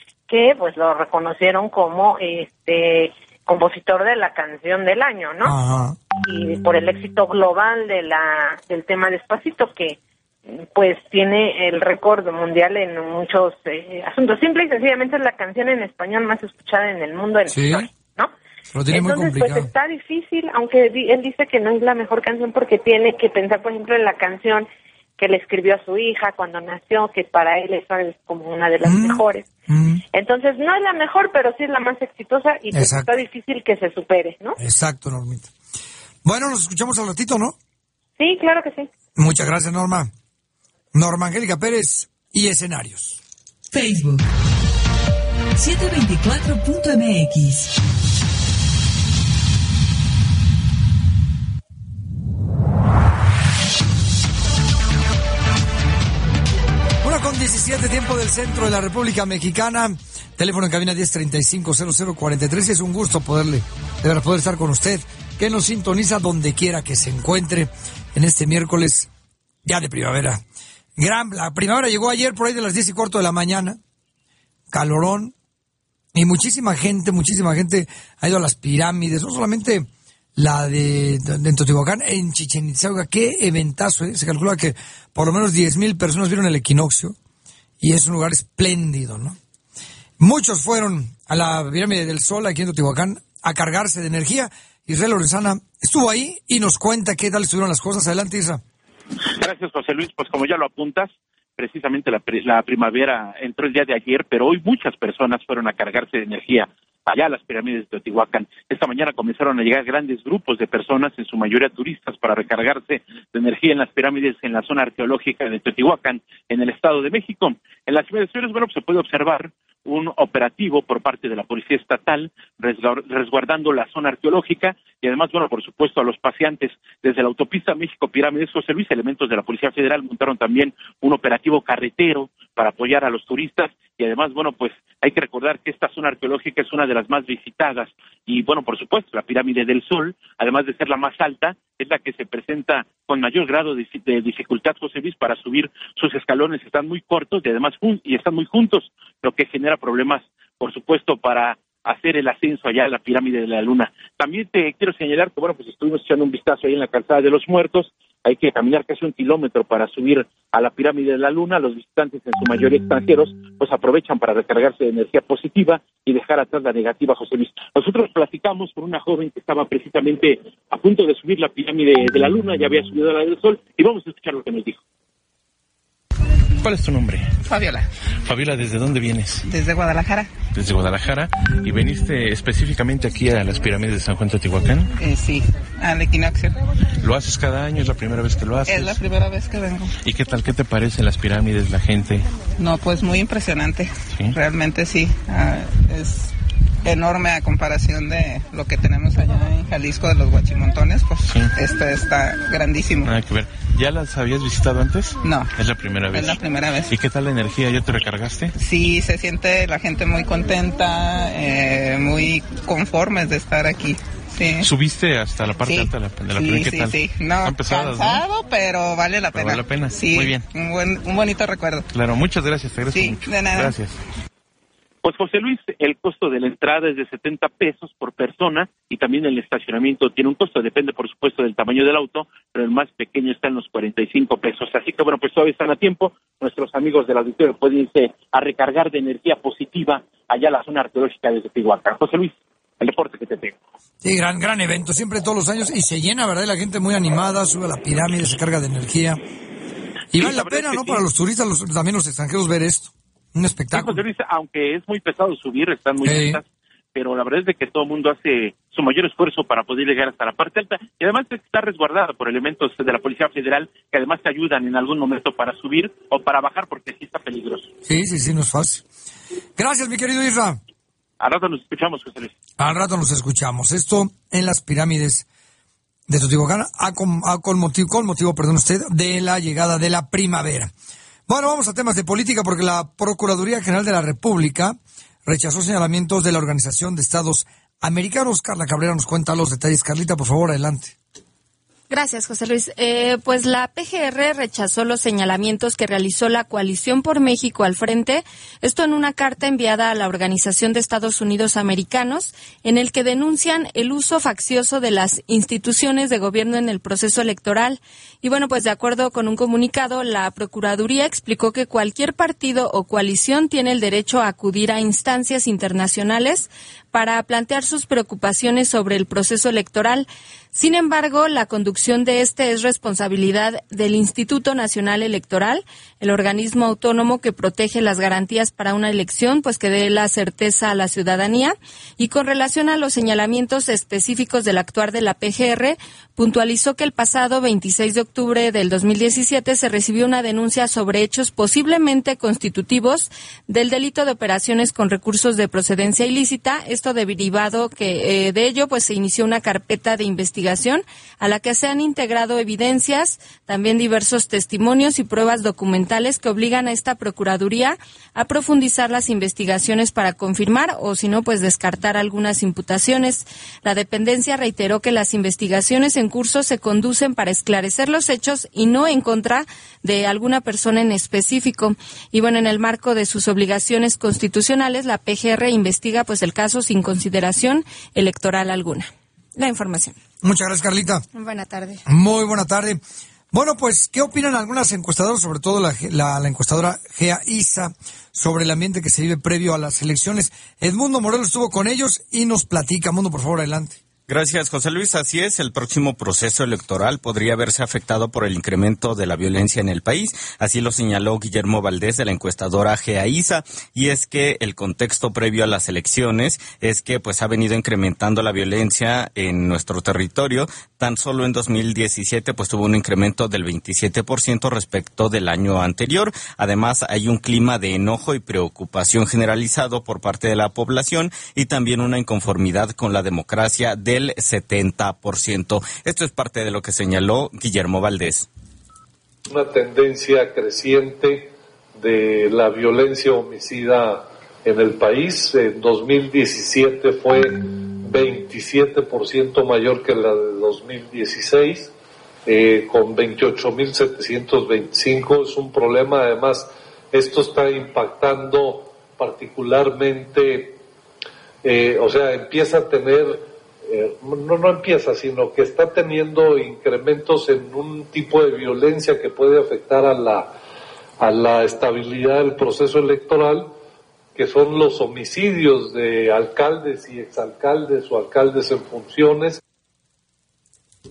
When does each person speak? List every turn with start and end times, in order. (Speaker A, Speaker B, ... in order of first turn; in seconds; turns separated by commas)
Speaker A: 0.3-5.5, Speaker B: 5.4-6.0, Speaker A: 6.2-18.3, Speaker B: 17.5-17.8, Speaker B: 18.7-19.7, Speaker A: 18.9-24.7, Speaker A: 25.2-29.5, Speaker B: 28.8-30.0, Speaker A: 30.1-34.6, Speaker B: 32.7-33.1, Speaker B: 34.6-35.5, Speaker B: 36.2-37.5, Speaker A: 38.2-38.9, Speaker B: 39.2-40.1, Speaker B: 40.9-43.2, Speaker C: 43.7-44.2, Speaker C: 45.6-47.7, Speaker B: 57.0-69.1, Speaker B: 69.6-70.4, Speaker B: 71.0-73.8, Speaker B: 74.7-75.3, Speaker B: 76.1-87.2, Speaker B: 87.8-89.4, Speaker B: 90.2-98.6, Speaker D: 99.4-174.8, Speaker E: 176.6-177.3, Speaker F: 177.4-177.9, Speaker E: 178.2-179.4, Speaker F: 179.4-180.3, Speaker E: 180.5-184.9, Speaker F: 185.0-186.6, Speaker E: 187.0-189.0, Speaker F: 188.7-189.9, Speaker E: 190.0-192.4, Speaker F: 192.6-196.3, Speaker F: 196.8-203.1, Speaker E: 203.0-206.4, Speaker F: 205.2-205.5, Speaker F: 206.1-207.0, Speaker E: 206.9-208.5, Speaker F: 208.6-214.7, Speaker E: 214.6-218.2, Speaker F: 215.6-221.9, Speaker E: 219.3-220.4, Speaker E: 221.9-224.0, Speaker F: 222.9-223.8, Speaker D: 225.0-243.6, Speaker B: 244.0-249.2, Speaker B: 250.1-254.0, Speaker D: 250.2-251.0, Speaker D: 253.7-267.7, Speaker B: 256.0-256.4, Speaker B: 267.8-268.8, Speaker B: 269.6-270.6, Speaker D: 271.2-272.3, Speaker B: 272.6-275.2, Speaker B: 276.1-280.7, Speaker B: 281.3-290.9, Speaker G: 291.9-380.0, Speaker B: 380.2-381.0, Speaker G: 381.1-381.8, Speaker B: 381.9-382.8, Speaker B: 383.3-393.8, Speaker H: 394.1-428.3, Speaker I: 429.3-441.7, Speaker I: 442.2-450.6, Speaker I: 451.4-460.3, Speaker I: 461.0-463.5, Speaker I: 464.1-469.4